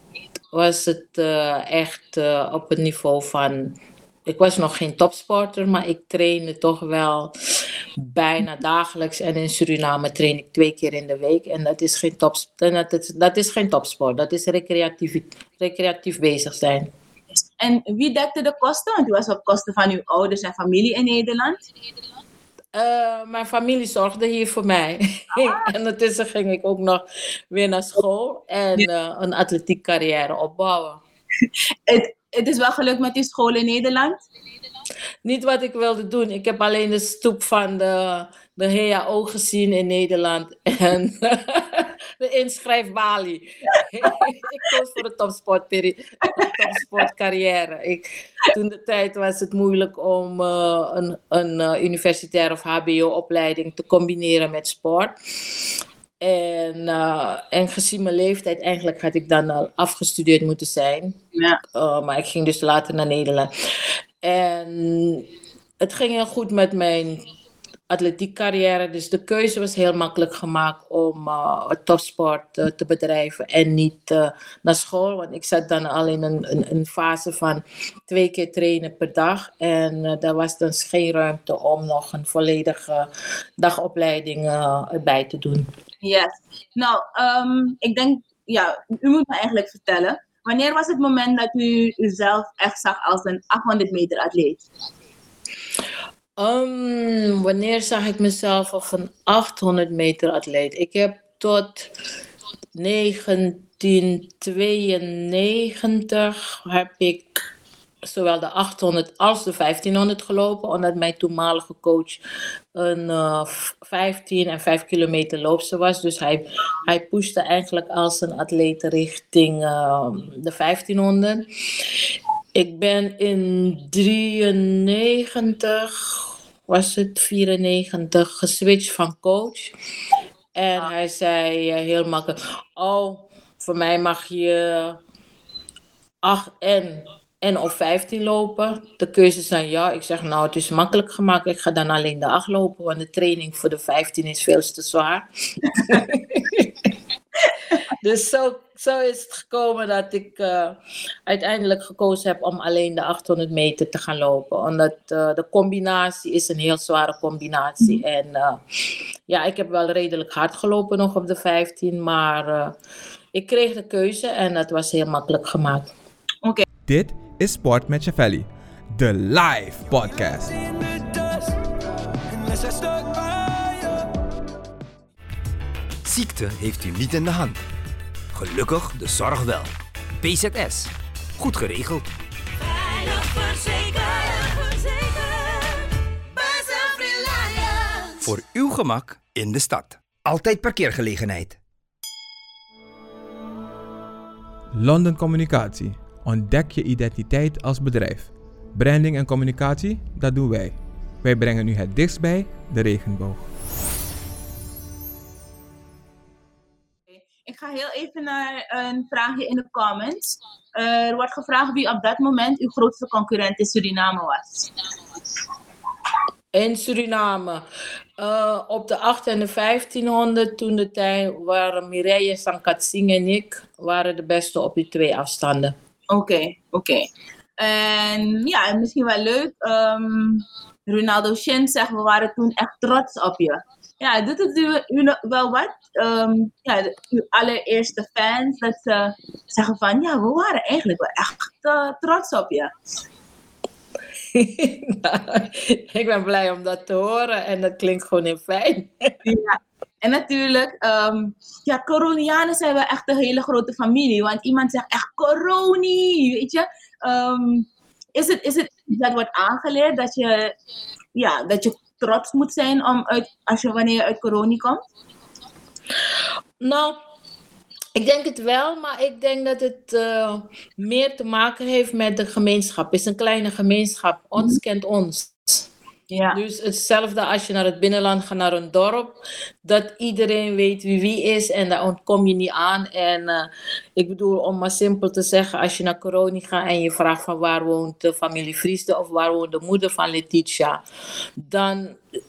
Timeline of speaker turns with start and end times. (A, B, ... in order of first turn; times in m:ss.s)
0:00.5-0:16.9 A
0:17.6-0:21.6 B
0:22.7-0:31.0 A
0:25.3-0:25.7 B
0:31.9-0:34.2 B
0:35.2-0:55.6 A
0:56.2-1:01.2 A
1:01.3-1:01.6 B
1:01.7-1:05.3 A
1:05.8-1:07.3 A
1:07.9-1:25.7 A
1:26.0-1:34.6 B
1:36.4-1:41.9 A
1:42.7-1:47.4 A
1:48.0-1:52.2 A
1:52.7-2:01.9 A
2:02.5-2:09.7 A
2:10.6-2:15.0 A
2:16.2-2:26.9 A
2:28.0-2:38.6 A
2:39.3-2:42.7 A
2:43.3-2:45.9 A
2:46.9-2:50.6 C
2:50.4-2:51.6 D
2:52.3-2:54.1 D
2:56.0-2:57.6 E
2:58.3-3:02.1 E
3:02.6-3:08.3 D
3:08.2-3:11.6 E
3:14.7-3:23.4 C
3:27.1-3:34.7 B
3:36.5-3:37.6 A
3:38.2-3:45.7 A
3:46.1-3:47.1 B
3:47.6-4:02.7 B
4:04.3-4:09.2 A
4:09.2-4:20.5 B
4:21.2-4:24.8 B
4:26.6-4:27.0 A
4:28.0-4:35.6 A
4:36.1-4:36.4 B
4:36.3-4:50.8 A
4:51.4-4:52.0 A